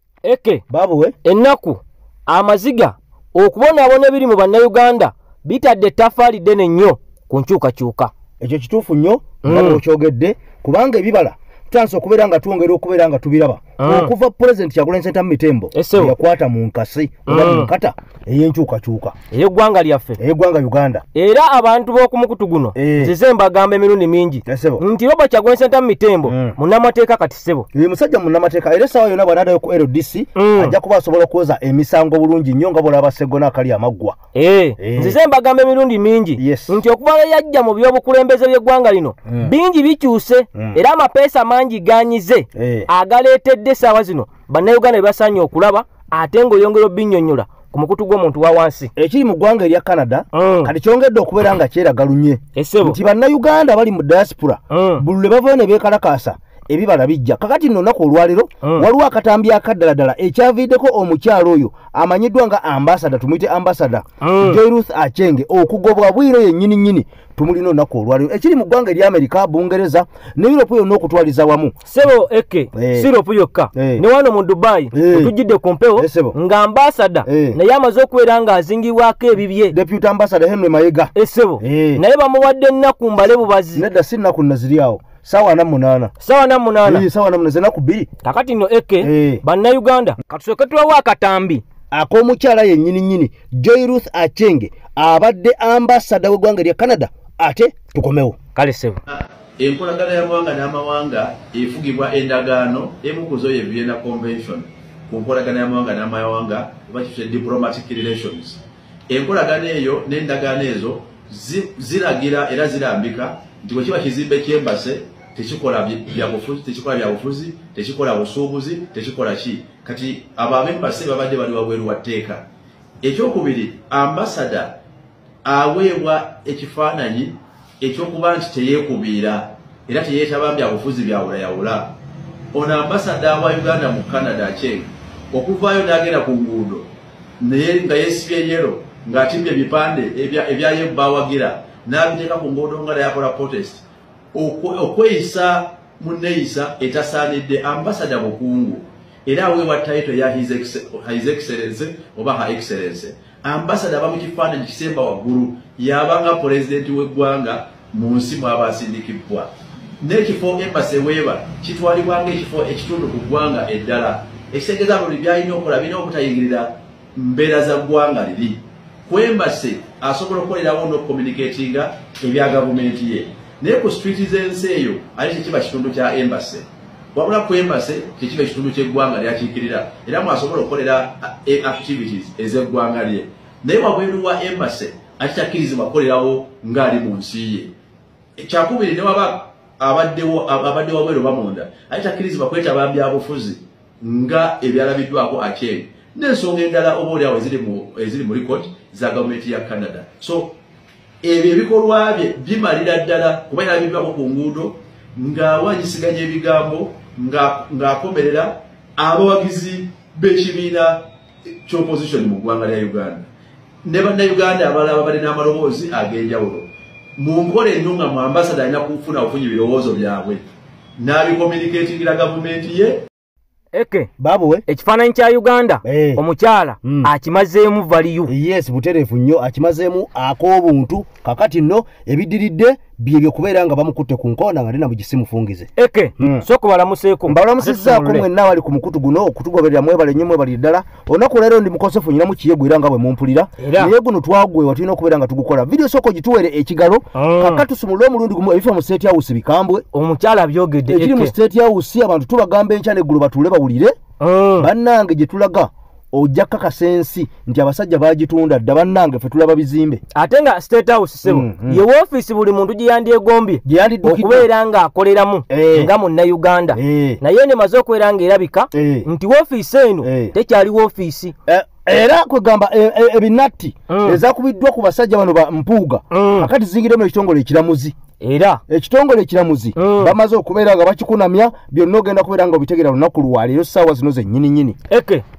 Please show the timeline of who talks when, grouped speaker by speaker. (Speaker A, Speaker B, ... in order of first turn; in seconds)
Speaker A: 0.2-0.6, 1.2-8.1, 9.4-9.8, 13.8-14.1, 15.7-16.1, 17.2-17.7, 19.3-20.2, 21.1-27.7, 30.4-30.7, 34.3-48.9, 50.3-50.7, 52.5-53.0, 54.7-55.0, 64.2-64.6, 71.9-79.7, 81.1-83.8, 86.2-87.0, 88.2-91.6, 98.5-99.0, 223.7-224.1, 224.7-228.3, 235.8-238.2, 243.6-243.9, 247.2-247.6, 249.9-251.3, 254.2-254.7, 260.1-271.3, 273.9-274.2, 276.1-276.5, 278.2-278.6, 279.8-280.1, 284.9-285.2
Speaker B: 0.7-1.1, 8.4-19.1, 20.2-21.0, 22.8-23.1, 24.5-24.8, 26.3-26.6, 27.7-34.2, 34.8-35.2, 36.4-36.7, 42.5-42.9, 49.0-71.7, 72.7-73.1, 73.7-74.0, 74.9-75.3, 76.0-76.3, 77.2-77.6, 79.7-82.0, 83.7-86.1, 86.8-88.1, 89.0-89.4, 91.9-98.3, 224.2-224.6, 225.8-226.2, 226.8-227.1, 228.3-236.4, 237.3-249.8, 250.9-253.9, 254.6-260.0, 261.2-261.8, 263.6-264.5, 265.5-265.9, 266.7-267.2, 268.7-269.1, 270.0-270.3, 271.5-277.9, 278.7-284.8
Speaker C: 99.1-122.4, 123.0-124.8, 125.4-131.9, 132.5-136.9, 137.4-159.5, 160.0-187.7, 188.4-200.5, 201.2-211.0, 211.7-213.3, 213.8-220.4, 221.0-223.0